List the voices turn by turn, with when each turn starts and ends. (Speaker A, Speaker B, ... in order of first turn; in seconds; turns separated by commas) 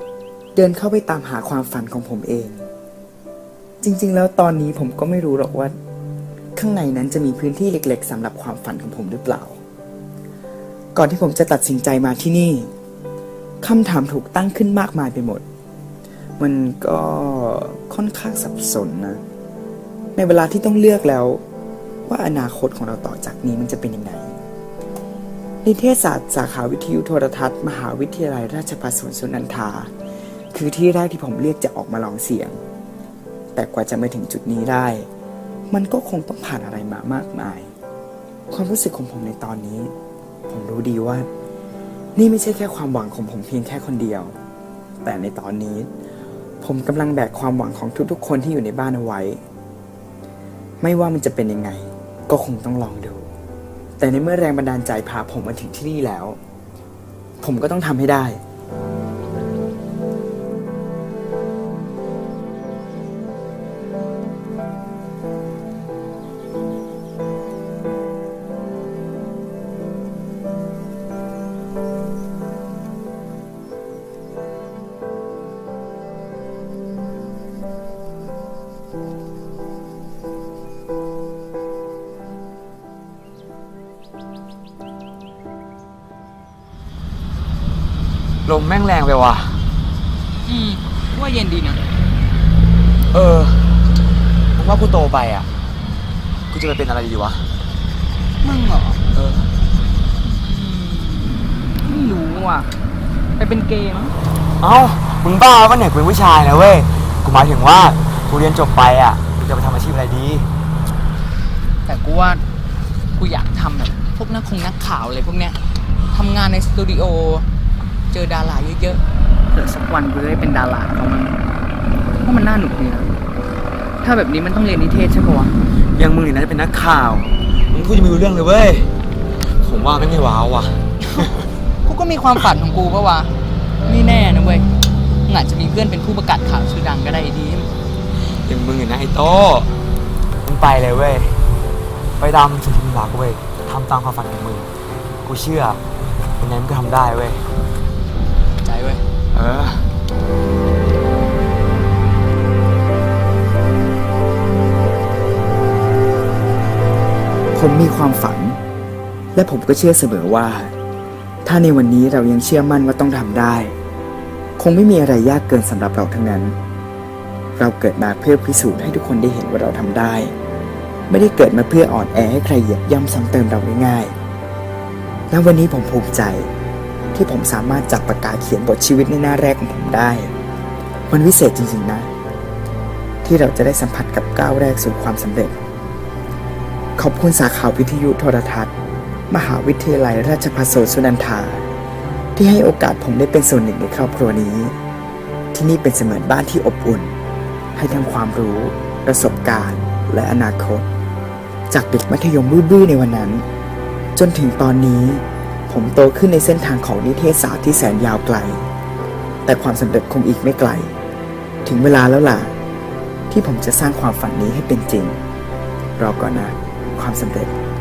Speaker A: 0.5-2.6, Speaker A: 3.8-5.8, Speaker A: 6.5-9.6, Speaker A: 10.9-12.7, Speaker A: 13.6-15.4, Speaker A: 16.4-19.2, Speaker A: 20.1-21.4, Speaker A: 22.1-24.4, Speaker A: 25.6-29.9, Speaker A: 30.5-32.6, Speaker A: 33.5-35.1, Speaker A: 35.7-37.7, Speaker A: 38.5-39.9, Speaker A: 40.5-41.3, Speaker A: 42.1-44.3, Speaker A: 45.0-45.9, Speaker A: 46.6-49.4, Speaker A: 50.8-53.3, Speaker A: 54.0-56.4, Speaker A: 57.4-58.4, Speaker B: 88.5-89.6, Speaker C: 90.5-91.8, Speaker B: 93.1-93.8, Speaker B: 94.5-95.5, Speaker B: 96.5-97.5, Speaker C: 98.4-99.0, Speaker B: 99.1-99.5, Speaker C: 100.3-102.7, Speaker C: 103.4-104.1, Speaker B: 104.6-110.5, Speaker C: 111.8-112.4, Speaker C: 113.2-115.6, Speaker C: 116.1-117.5, Speaker C: 118.1-121.4, Speaker C: 122.2-123.1, Speaker C: 124.0-125.5, Speaker B: 125.9-128.9, Speaker B: 129.4-131.5, Speaker C: 131.0-131.3, Speaker C: 131.8-134.7, Speaker C: 135.2-137.7, Speaker B: 138.3-139.7, Speaker B: 140.4-141.4, Speaker B: 142.2-144.7, Speaker B: 145.2-145.8, Speaker B: 146.4-147.4, Speaker C: 148.6-149.0, Speaker B: 149.3-149.9, Speaker A: 157.5-158.6, Speaker A: 159.3-160.7, Speaker A: 161.4-163.8, Speaker A: 164.6-166.6, Speaker A: 167.6-170.3, Speaker A: 171.1-174.1, Speaker A: 175.3-176.5, Speaker A: 177.1-180.3, Speaker A: 181.1-182.1, Speaker A: 183.2-185.6, Speaker A: 187.0-188.7, Speaker A: 189.3-191.7, Speaker A: 192.3-194.7, Speaker A: 195.5-197.1, Speaker A: 197.8-200.9, Speaker A: 201.7-203.4, Speaker A: 204.2-208.7, Speaker A: 209.4-210.9, Speaker A: 211.6-212.5, Speaker A: 213.3-215.2, Speaker A: 216.0-217.5